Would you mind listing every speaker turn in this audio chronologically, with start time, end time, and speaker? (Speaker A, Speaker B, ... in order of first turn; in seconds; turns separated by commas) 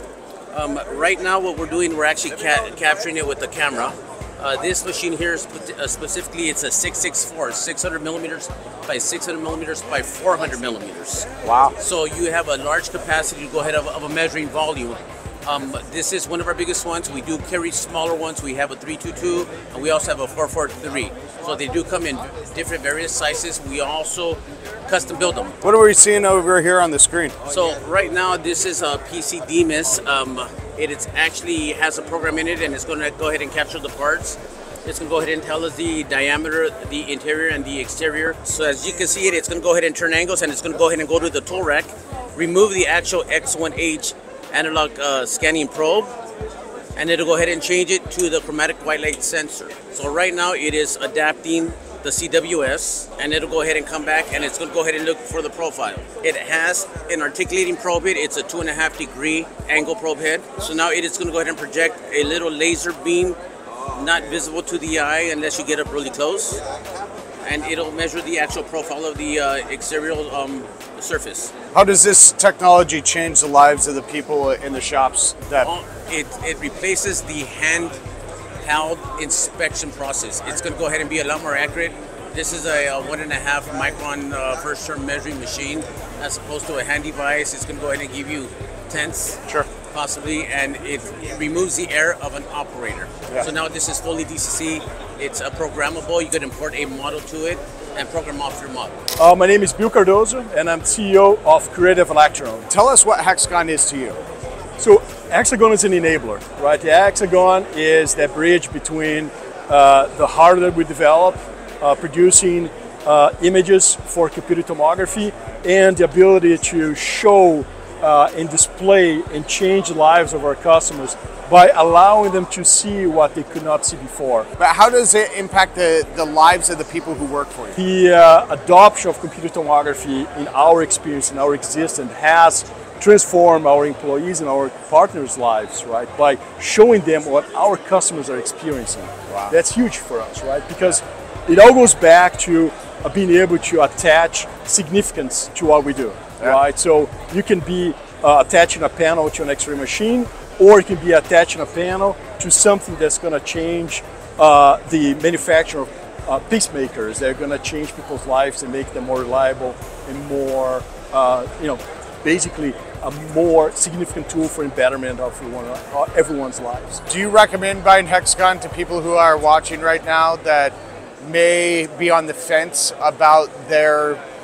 Speaker A: 0.5-11.3, Speaker B: 11.4-11.7, Speaker A: 11.8-25.5, Speaker B: 25.6-27.4, Speaker A: 27.5-46.1, Speaker A: 47.0-63.4, Speaker A: 64.0-66.6, Speaker A: 67.4-71.5, Speaker B: 71.7-75.7, Speaker A: 75.6-78.0, Speaker A: 78.6-99.0, Speaker C: 99.2-102.7, Speaker B: 102.7-104.2, Speaker C: 104.8-124.5, Speaker B: 124.6-127.8, Speaker C: 127.8-167.0, Speaker B: 139.3-139.6, Speaker B: 167.1-174.2